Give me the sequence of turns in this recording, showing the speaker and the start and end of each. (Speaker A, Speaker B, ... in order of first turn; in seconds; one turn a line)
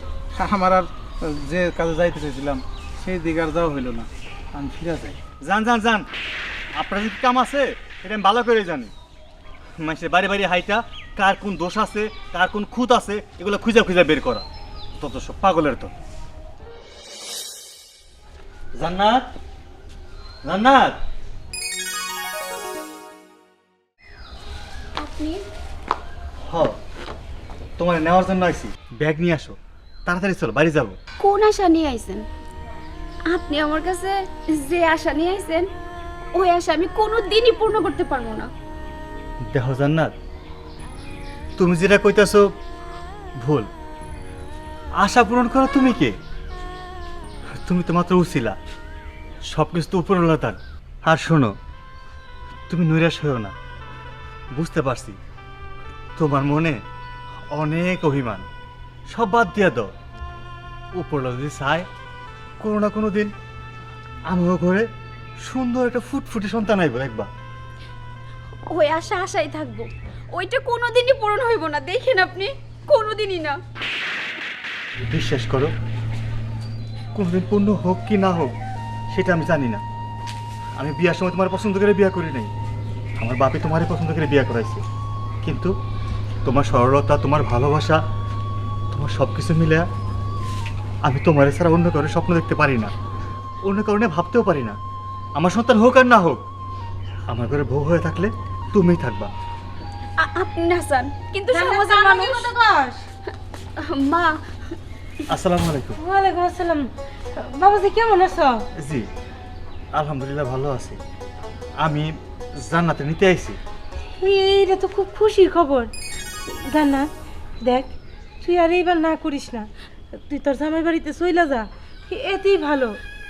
Speaker A: 0.3-5.2
Speaker B: 5.4-6.0
Speaker B: 6.8-8.9
Speaker B: 9.8-14.4
Speaker B: 15.0-15.9
Speaker B: 18.8-19.2
Speaker B: 20.4-20.9
Speaker C: 25.0-25.4
Speaker B: 26.4-26.7
Speaker B: 27.8-30.9
Speaker C: 31.2-32.2
Speaker C: 33.3-35.6
Speaker C: 36.3-38.5
Speaker B: 39.5-40.1
Speaker B: 41.6-42.5
Speaker B: 43.4-43.7
Speaker B: 45.0-46.1
Speaker B: 47.6-48.5
Speaker B: 49.5-51.5
Speaker B: 52.7-53.5
Speaker B: 54.5-55.2
Speaker B: 56.2-56.8
Speaker B: 57.5-58.5
Speaker B: 59.1-59.9
Speaker B: 61.0-61.8
Speaker B: 62.6-63.3
Speaker B: 64.3-64.8
Speaker B: 65.4-67.3
Speaker C: 68.7-73.6
Speaker B: 75.1-75.7
Speaker B: 77.1-78.5
Speaker B: 79.1-79.8
Speaker B: 80.8-82.5
Speaker B: 83.2-84.8
Speaker B: 85.4-85.7
Speaker B: 86.4-88.0
Speaker B: 88.9-89.8
Speaker B: 91.0-92.9
Speaker B: 93.6-94.8
Speaker B: 95.4-96.4
Speaker B: 97.3-99.3
Speaker C: 100.2-102.5
Speaker D: 101.5-103.0
Speaker C: 103.8-104.3
Speaker B: 105.3-106.0
Speaker D: 106.0-108.5
Speaker B: 108.8-109.0
Speaker B: 109.9-111.0
Speaker B: 111.8-112.1
Speaker B: 112.6-113.6
Speaker D: 114.2-115.9
Speaker D: 116.5-117.1
Speaker D: 117.6-117.9
Speaker D: 118.4-119.7
Speaker D: 120.3-123.0